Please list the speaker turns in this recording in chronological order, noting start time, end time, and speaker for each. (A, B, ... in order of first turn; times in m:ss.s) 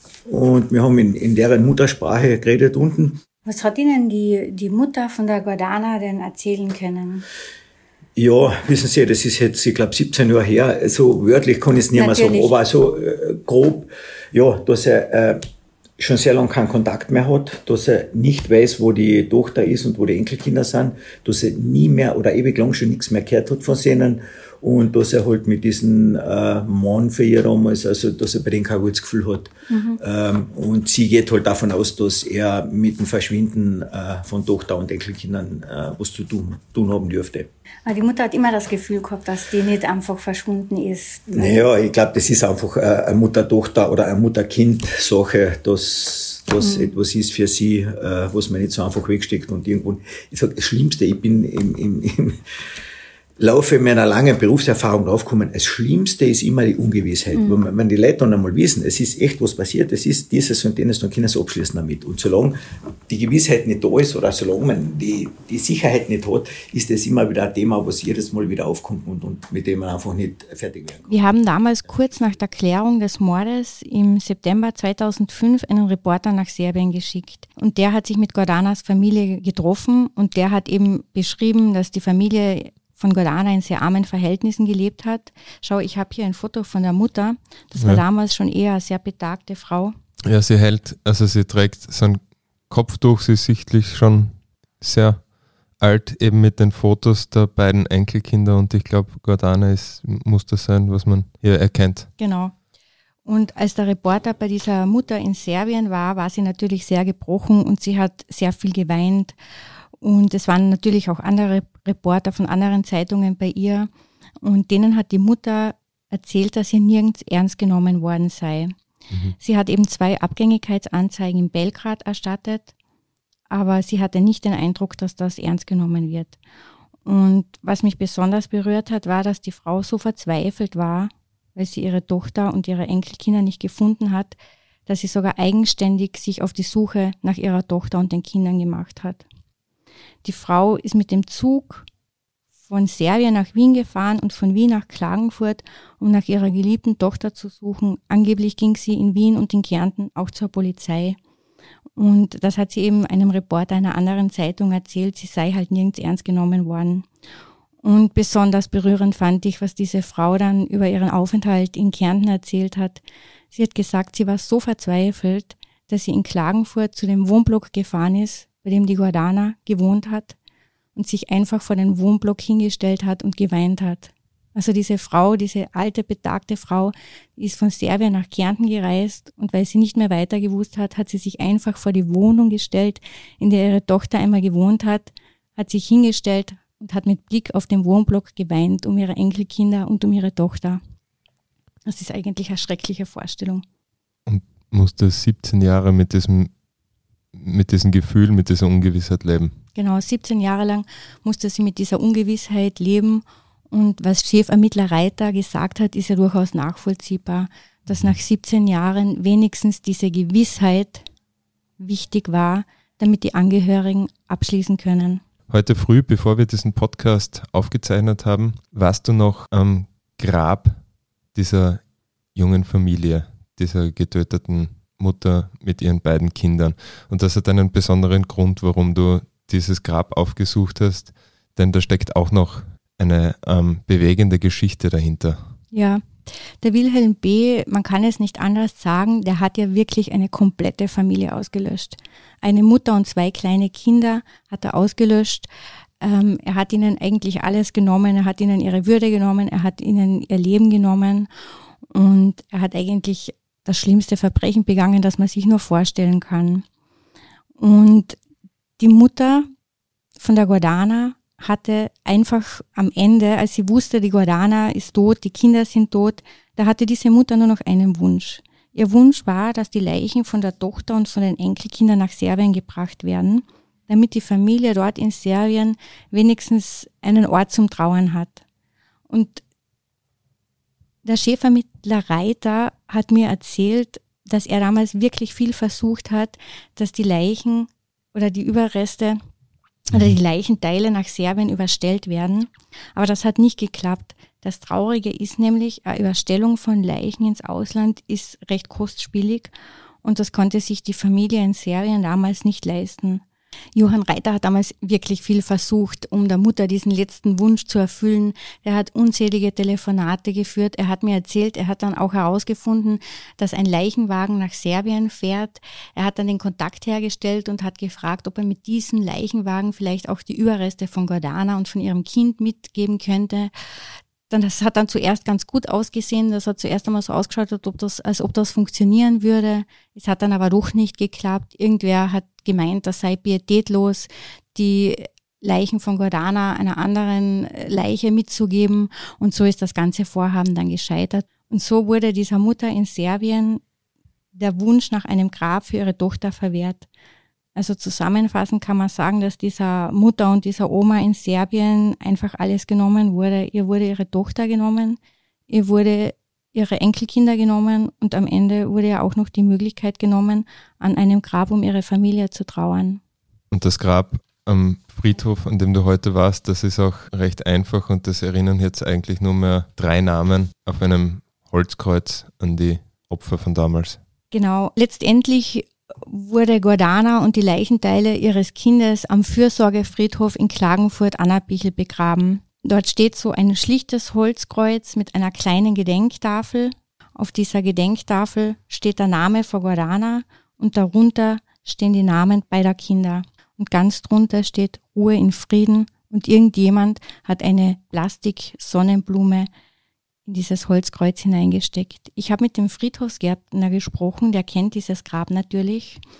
0:00.3-0:03.2 A
0:03.4-0:07.2 B
0:08.2-0:15.4 A
0:11.9-0:12.6 B
0:16.0-0:37.5 A
0:29.7-0:30.0 B
0:37.8-0:41.6 B
0:41.3-0:52.4 A
0:46.6-0:46.9 B
0:53.4-1:02.6 A
1:03.1-1:11.1 A
1:11.1-1:29.9 B
1:27.8-1:28.0 C
1:30.3-1:42.1 C
1:42.2-1:42.5 B
1:43.2-1:49.3 B
1:50.0-1:53.9 B
1:54.4-1:58.7 B
1:59.1-1:59.4 C
1:59.4-2:02.7 B
2:03.5-2:06.4 B
2:07.0-2:14.4 B
2:14.9-2:19.2 B
2:20.2-2:21.8 B
2:22.6-2:31.2 B
2:32.0-2:37.0 B
2:37.8-2:50.4 B
2:50.9-3:10.8 B
3:11.8-3:13.6 B
3:14.2-3:16.5 C
3:17.3-3:19.6 C
3:19.7-3:31.1 B
3:27.9-3:28.2 C
3:31.8-3:35.2 B
3:35.5-3:40.8 C
3:41.3-3:55.5 C
3:55.7-4:05.5 B
4:06.0-4:11.3 B
4:11.9-4:16.6 B
4:17.6-4:18.2 B
4:18.8-4:19.5 B
4:20.2-4:38.4 B
4:39.1-4:39.4 B
4:41.0-4:49.2 B
4:49.9-4:59.5 B
5:00.0-5:03.2 B
5:03.8-5:23.5 B
5:24.3-5:43.6 B
5:44.4-5:46.9 B
5:47.6-5:55.0 B
5:55.5-6:03.0 B
6:03.5-6:14.0 C
6:14.3-6:39.5 B
6:40.2-6:46.0 B